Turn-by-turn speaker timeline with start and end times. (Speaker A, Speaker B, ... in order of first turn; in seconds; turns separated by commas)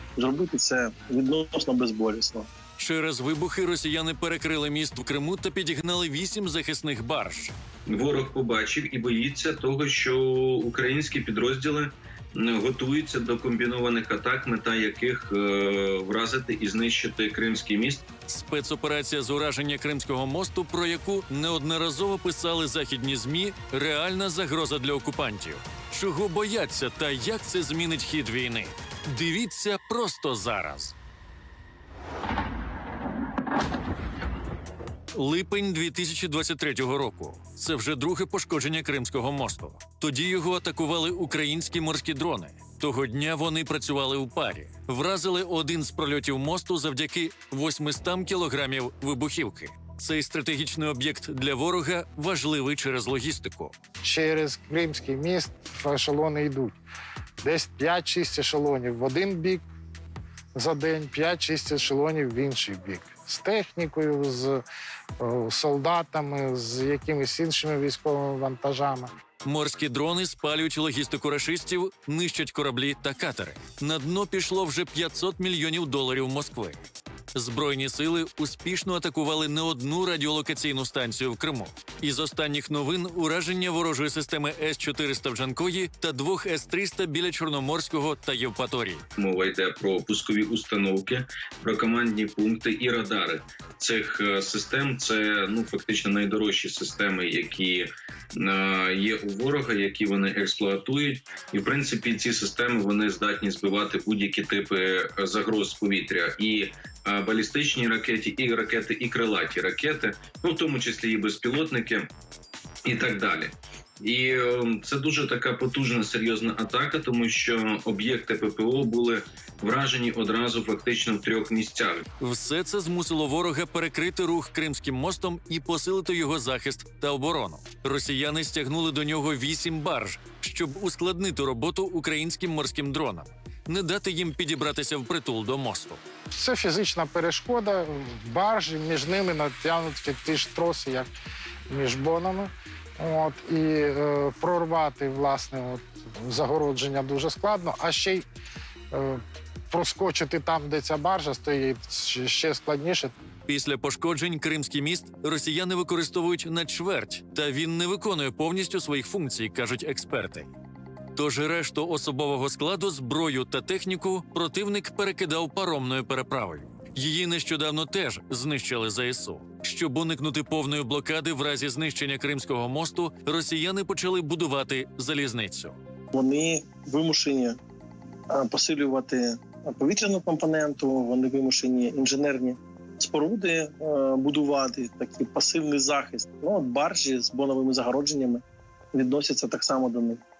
Speaker A: 0.2-2.5, Speaker B: 2.8-7.5, Speaker C: 7.9-18.1, Speaker B: 18.3-30.9, Speaker B: 35.1-53.7, Speaker D: 54.0-56.8, Speaker D: 57.4-59.6, Speaker D: 60.5-64.6, Speaker D: 65.2-69.1, Speaker B: 69.4-76.8, Speaker B: 77.3-89.0, Speaker C: 89.2-112.1, Speaker C: 112.8-122.1, Speaker B: 122.2-136.0, Speaker D: 136.3-141.1, Speaker D: 141.7-148.2, Speaker D: 148.9-153.1, Speaker B: 153.5-160.5, Speaker B: 161.1-175.8, Speaker A: 176.1-177.6, Speaker A: 178.3-190.2